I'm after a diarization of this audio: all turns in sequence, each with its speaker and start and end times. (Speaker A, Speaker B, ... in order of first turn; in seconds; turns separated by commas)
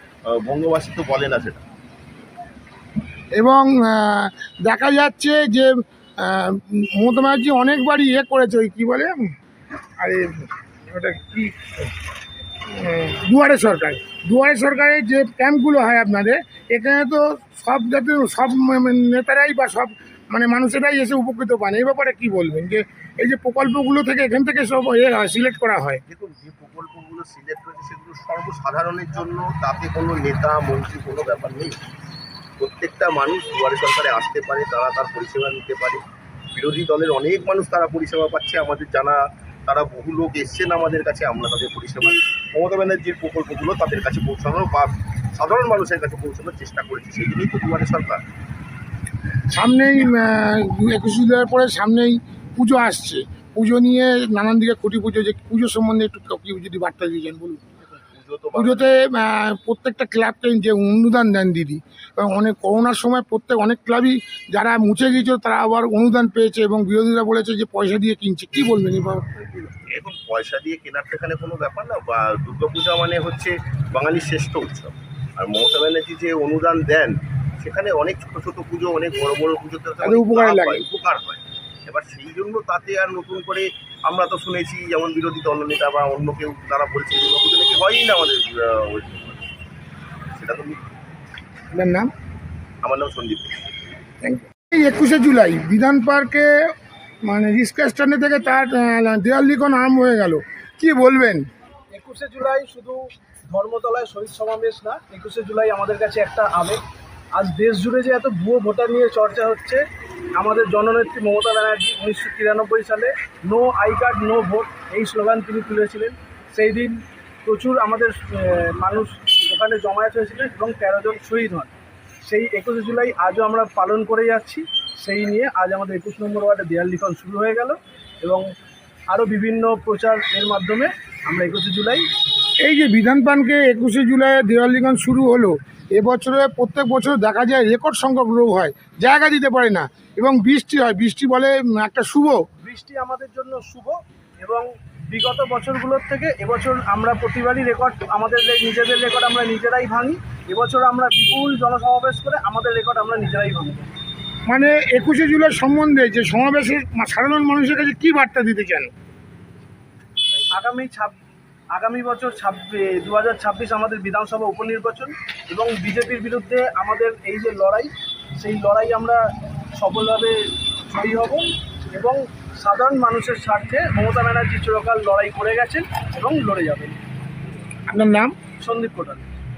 Speaker A: 0.3-1.6, Speaker B: 3.3-9.3, Speaker B: 10.0-11.9, Speaker B: 12.7-26.0, Speaker A: 26.1-31.8, Speaker A: 32.6-36.0, Speaker A: 36.5-48.2, Speaker B: 49.5-57.6, Speaker A: 58.0-58.9, Speaker B: 58.5-69.2, Speaker A: 69.5-89.4, Speaker B: 80.0-80.8, Speaker A: 90.3-90.8, Speaker B: 91.7-92.1, Speaker A: 92.8-93.5, Speaker B: 94.2-96.7, Speaker B: 97.2-101.5, Speaker C: 101.9-103.0, Speaker C: 103.5-106.8, Speaker C: 107.3-109.8, Speaker C: 110.3-121.7, Speaker C: 122.2-128.5, Speaker C: 129.1-132.0, Speaker B: 132.6-142.4, Speaker C: 142.6-153.9, Speaker B: 154.5-158.9, Speaker C: 160.5-161.1, Speaker C: 161.7-169.2, Speaker C: 169.7-177.0, Speaker B: 177.9-178.3, Speaker C: 178.6-179.2